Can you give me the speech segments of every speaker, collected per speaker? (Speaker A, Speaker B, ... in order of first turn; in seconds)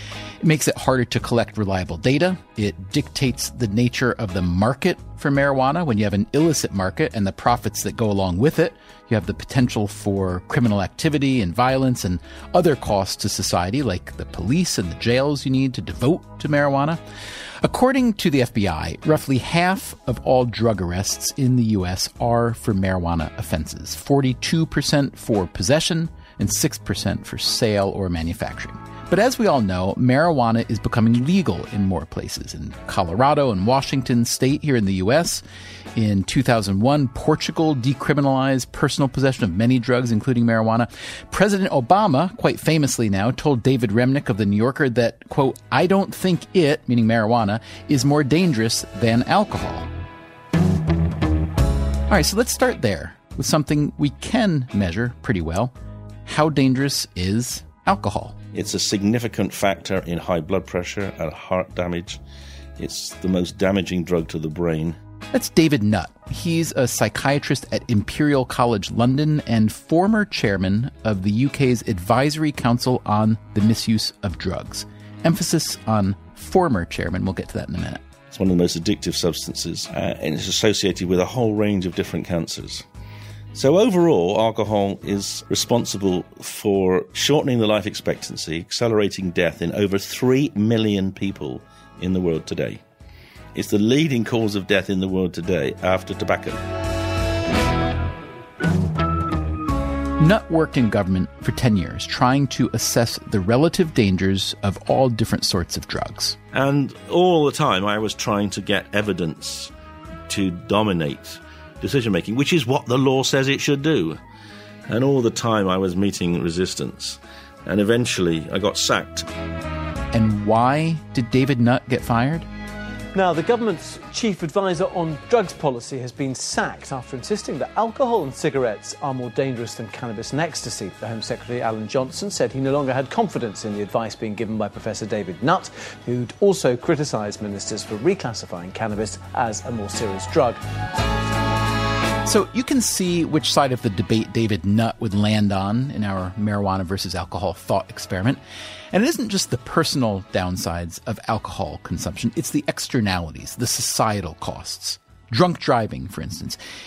Speaker A: 0.4-17.0, 17.6-35.4, 36.0-49.9, 52.1-55.7, 56.2-58.4, 65.3-78.0, 100.2-106.4, 120.1-122.5, 142.2-148.4, 148.9-156.6
Speaker B: 58.5-62.2, 62.8-65.0, 78.3-82.8, 83.5-92.8, 93.5-96.6, 106.5-109.7, 110.3-114.2, 114.9-119.3
Speaker C: 123.1-140.6